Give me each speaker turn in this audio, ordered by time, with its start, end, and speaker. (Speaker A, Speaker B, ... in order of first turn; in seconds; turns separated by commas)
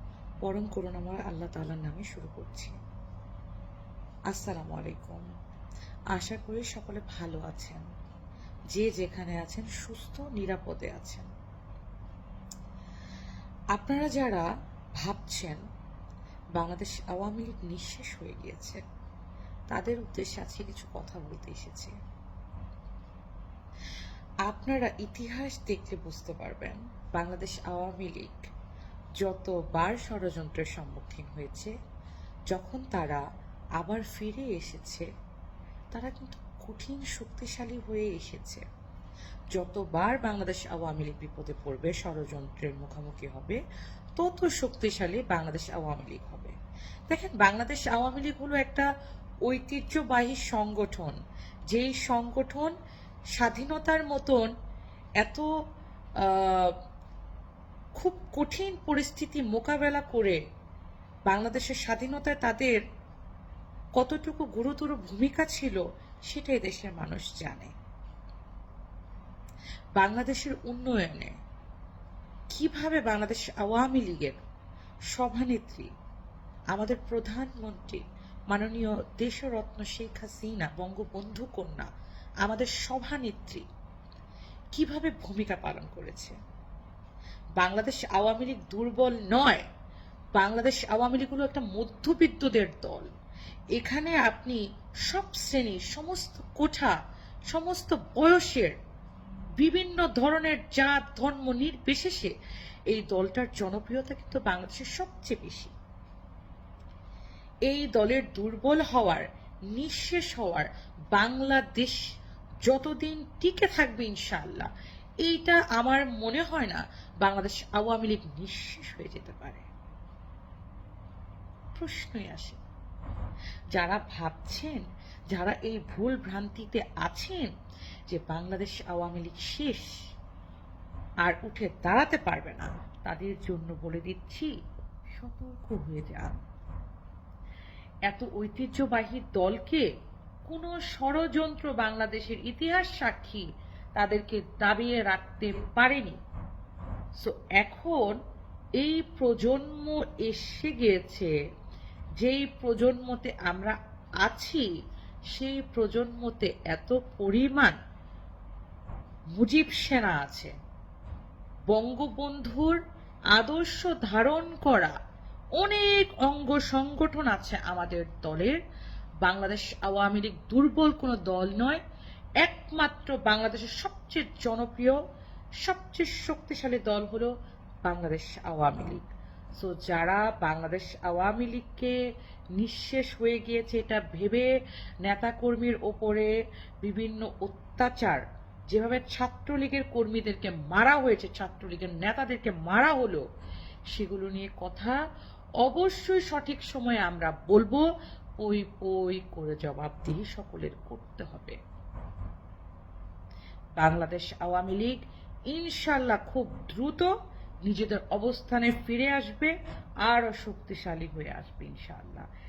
Speaker A: 0.4-2.7, Speaker A: 4.3-5.2, Speaker A: 6.1-7.8, Speaker A: 8.7-11.3, Speaker A: 13.7-14.4, Speaker A: 15.0-15.6, Speaker A: 16.6-18.8, Speaker A: 19.7-21.9, Speaker A: 24.5-28.4, Speaker A: 29.2-31.7, Speaker A: 32.5-33.2, Speaker A: 33.8-35.1, Speaker A: 35.9-38.6, Speaker A: 39.5-43.6, Speaker A: 44.1-46.5, Speaker A: 47.1-48.9, Speaker A: 49.5-51.2, Speaker A: 51.7-52.7, Speaker A: 53.4-54.5, Speaker A: 55.2-55.5, Speaker A: 56.2-56.8, Speaker A: 58.0-60.4, Speaker A: 61.3-62.8, Speaker A: 64.0-67.7, Speaker A: 70.0-71.3, Speaker A: 72.5-74.4, Speaker A: 75.1-75.9, Speaker A: 76.7-81.9, Speaker A: 82.4-83.7, Speaker A: 84.7-86.3, Speaker A: 87.6-89.6, Speaker A: 90.4-93.1, Speaker A: 93.8-97.0, Speaker A: 97.5-98.7, Speaker A: 99.6-102.3, Speaker A: 102.9-105.7, Speaker A: 107.7-112.0, Speaker A: 112.7-114.7, Speaker A: 115.2-119.7, Speaker A: 121.7-122.6, Speaker A: 123.7-127.5, Speaker A: 128.1-129.9, Speaker A: 131.2-134.5, Speaker A: 135.2-136.4, Speaker A: 138.1-139.9, Speaker A: 140.5-146.2, Speaker A: 147.2-148.2, Speaker A: 148.8-151.3, Speaker A: 152.2-154.7, Speaker A: 155.3-157.8, Speaker A: 159.4-160.5, Speaker A: 161.7-162.8, Speaker A: 163.3-164.9, Speaker A: 165.6-168.6, Speaker A: 169.2-171.8, Speaker A: 172.4-175.0, Speaker A: 175.6-177.3, Speaker A: 177.8-179.0, Speaker A: 179.6-181.9, Speaker A: 182.6-184.5, Speaker A: 185.0-186.3, Speaker A: 186.8-193.2, Speaker A: 193.9-195.0, Speaker A: 195.6-197.8, Speaker A: 198.4-201.6, Speaker A: 203.8-207.1, Speaker A: 207.7-209.5, Speaker A: 210.0-212.3